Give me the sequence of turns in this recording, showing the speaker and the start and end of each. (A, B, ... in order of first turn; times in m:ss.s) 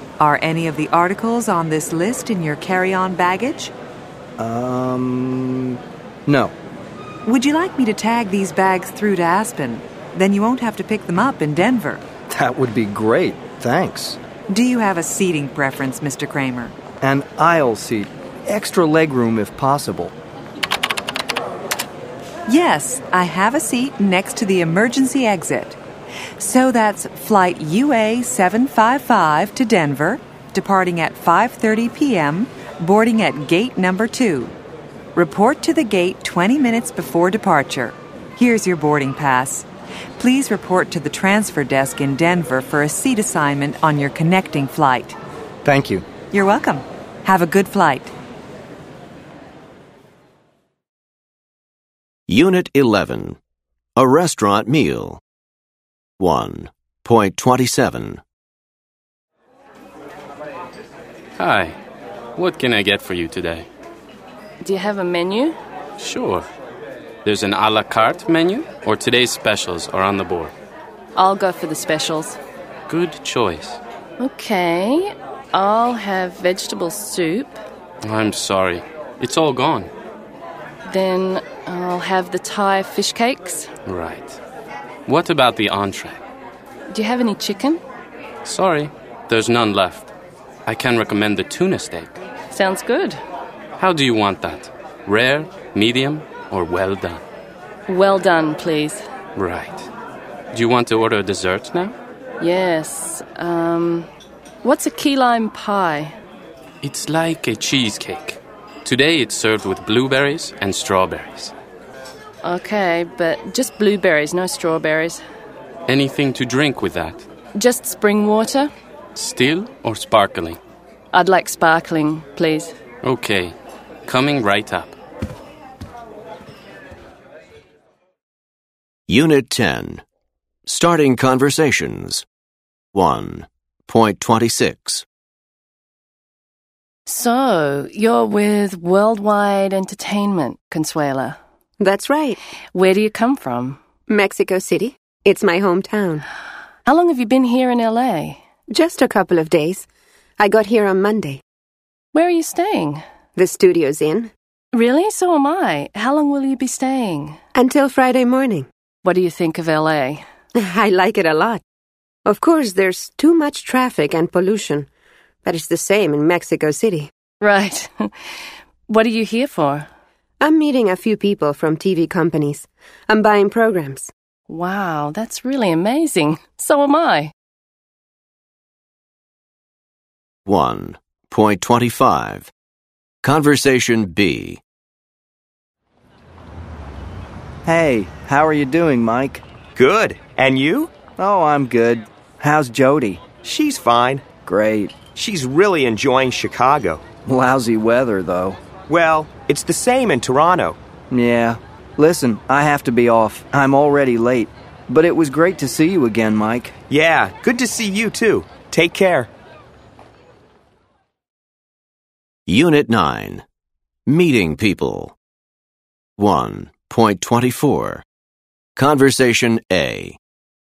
0:00.2-0:03.7 A
0:04.4-0:06.5 B
0:07.2-0:12.0 A
0:12.3-0:14.2 B
0:14.5-0:16.8 A
0:17.0-0:20.1 B
0:22.5-0:25.8 A
0:26.4-0:34.6 A
0:35.2-0:39.7 A
0:40.2-0:45.2 A
0:45.6-0:46.1 B
0:46.3-0:48.1 A
0:52.3-0:53.4 C
0:54.0-0:55.2 C
0:56.2-0:58.2 C
1:01.4-1:01.8 D
1:02.4-1:03.7 D
1:04.6-1:05.6 E
1:06.0-1:06.5 D
1:07.2-1:10.5 D
1:11.2-1:12.4 E
1:12.9-1:13.8 D
1:14.2-1:17.6 E
1:18.0-1:19.9 D
1:20.8-1:23.7 E
1:23.8-1:24.4 D
1:25.1-1:26.2 D
1:26.9-1:27.8 E
1:28.4-1:30.1 D
1:30.7-1:32.2 D
1:32.5-1:33.2 E
1:33.8-1:37.2 D
1:37.9-1:39.1 E
1:39.4-1:39.9 D
1:40.5-1:41.9 D
1:42.4-1:44.1 E
1:44.6-1:46.2 E
1:46.8-1:51.5 D
1:52.4-1:55.2 E
1:55.9-1:57.2 D
1:57.6-1:58.7 E
1:59.2-2:00.6 D
2:01.1-2:02.8 E
2:03.0-2:03.6 D
2:04.1-2:05.0 D
2:09.1-2:10.0 C
2:10.7-2:12.2 C
2:12.9-2:15.0 C
2:17.1-2:21.4 E
2:21.8-2:22.4 F
2:22.7-2:23.8 E
2:24.1-2:26.2 F
2:26.9-2:28.4 E
2:28.7-2:29.9 F
2:30.4-2:31.4 F
2:32.1-2:33.0 E
2:33.4-2:34.3 F
2:34.7-2:37.4 E
2:37.6-2:38.7 F
2:39.0-2:40.2 E
2:40.6-2:41.6 F
2:42.2-2:44.9 F
2:45.4-2:47.1 F
2:47.4-2:48.3 E
2:48.9-2:49.9 E
2:50.4-2:54.1 F
2:54.5-2:57.3 E
3:00.5-3:02.5 C
3:03.2-3:04.6 C
3:07.7-3:09.4 B
3:09.8-3:11.1 G
3:11.1-3:13.4 B
3:13.4-3:14.3 G
3:14.4-3:15.1 B
3:15.1-3:17.1 G
3:17.3-3:18.6 B
3:18.9-3:20.8 G
3:21.1-3:26.8 B
3:26.9-3:29.3 G
3:32.5-3:33.4 C
3:34.1-3:35.2 C
3:36.2-3:38.0 C
3:38.8-3:40.2 C